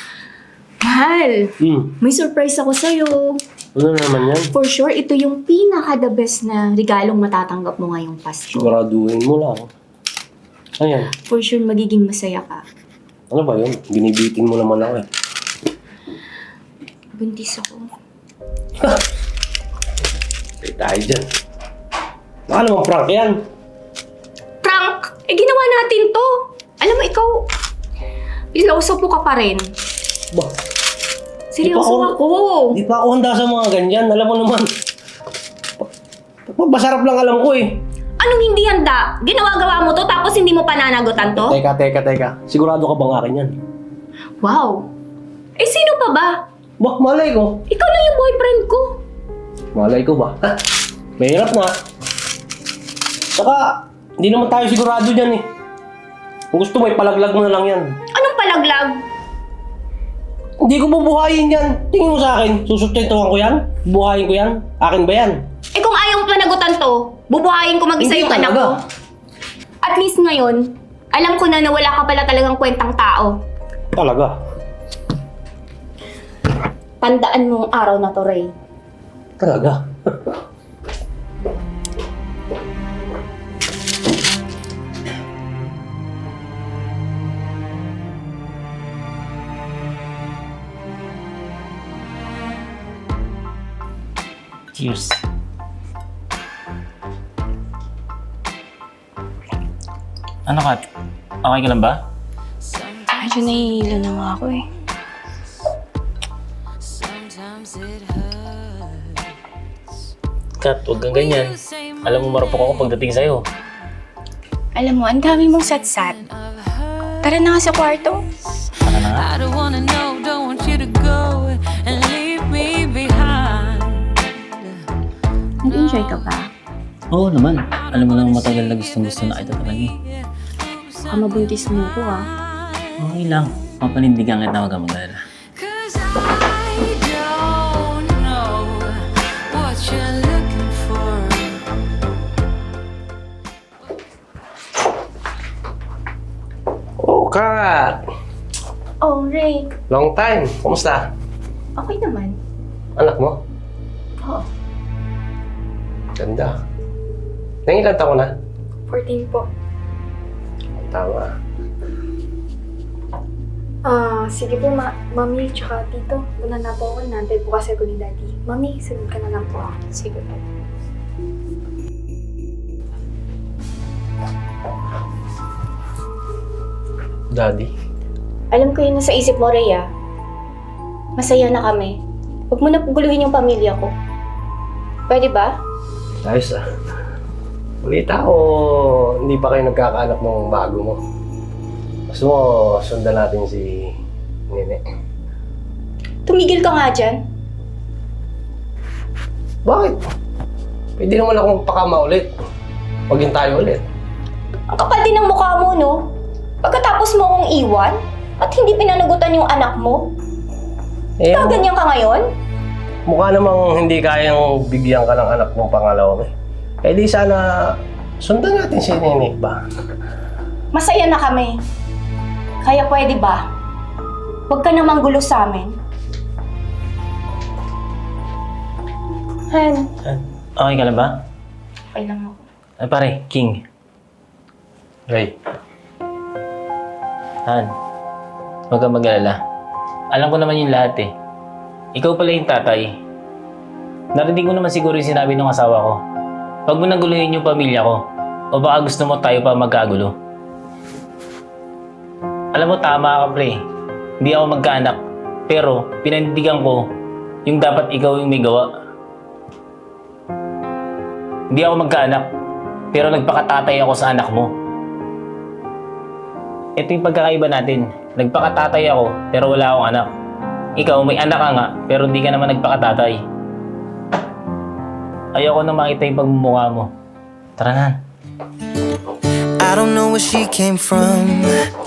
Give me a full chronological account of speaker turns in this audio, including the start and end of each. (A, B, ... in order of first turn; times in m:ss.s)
0:00.8-0:03.4 A
0:03.8-0:04.5 B
0:04.5-0:08.7 A
0:08.6-0:09.7 B
0:10.8-0:11.1 B
0:11.2-0:12.6 A
0:13.3-0:15.0 B
0:17.1-0:17.9 A
0:20.6-0:21.2 B
0:22.5-0:23.4 B
0:24.6-0:26.3 A
0:26.8-0:27.4 A
0:28.5-0:29.7 A
0:31.5-0:32.8 A
0:31.7-0:32.1 B
0:32.8-0:34.7 B
0:36.5-0:37.8 B
0:38.2-0:41.6 A
0:41.3-0:43.6 B
0:44.4-0:44.9 A
0:45.6-0:46.4 A
0:46.8-0:47.6 B
0:47.7-0:49.0 A
0:49.8-0:50.6 B
0:51.2-0:51.8 B
0:53.3-0:55.5 B
0:56.5-0:58.0 B
0:58.1-0:59.0 A
1:00.6-1:05.4 B
1:05.7-1:08.8 A
1:08.0-1:08.7 B
1:09.8-1:13.3 A
1:13.9-1:14.3 B
1:17.0-1:18.5 A
1:19.4-1:19.8 B
1:34.8-1:35.2 C
1:40.5-1:40.8 C
1:41.4-1:42.0 C
1:43.1-1:44.6 A
1:47.4-1:48.3 D
1:50.6-1:53.4 C
1:54.8-1:56.2 A
1:57.2-1:58.2 A
1:58.8-1:59.3 C
1:59.4-2:04.0 D
2:05.6-2:06.5 A
2:07.1-2:09.9 C
2:11.0-2:12.2 A
2:13.0-2:15.2 C
2:16.1-2:21.6 D
2:27.0-2:28.0 B
2:29.0-2:29.7 A
2:29.9-2:31.1 B
2:31.8-2:32.4 A
2:33.0-2:33.4 B
2:36.2-2:36.6 B
2:37.7-2:38.3 B
2:38.9-2:39.5 E
2:40.8-2:41.3 B
2:43.8-2:50.4 E
2:57.3-2:57.7 B
2:58.5-2:59.9 A
3:01.2-3:01.9 A
3:02.5-3:03.9 A
3:05.1-3:05.5 A
3:06.2-3:06.6 B
3:07.8-3:11.0 B
3:12.1-3:13.9 B
3:14.5-3:14.8 B
3:16.2-3:17.2 A
3:19.6-3:20.0 B
3:21.0-3:22.3 B
3:23.1-3:23.8 B
3:24.7-3:26.0 A
3:26.6-3:30.1 A
3:31.2-3:31.6 B
3:31.3-3:32.2 A
3:33.0-3:36.3 B
3:36.8-3:39.6 B
3:40.7-3:41.6 A
3:42.6-3:43.5 A
3:44.5-3:45.8 A
3:49.5-3:49.9 A
3:50.0-3:51.1 C
3:51.9-3:52.4 A
3:52.8-3:53.6 C
3:55.1-3:55.3 B
3:58.7-3:59.4 C
4:00.1-4:01.1 C
4:01.9-4:02.9 C
4:04.1-4:06.0 C
4:06.7-4:08.0 C
4:08.5-4:10.1 C
4:12.5-4:13.6 C
4:14.2-4:16.8 C
4:17.4-4:18.7 C
4:21.5-4:22.2 C
4:22.9-4:24.5 C
4:26.8-4:30.1 C
4:30.8-4:33.2 C
4:35.3-4:36.9 C
4:37.6-4:38.0 C
4:39.6-4:41.5 F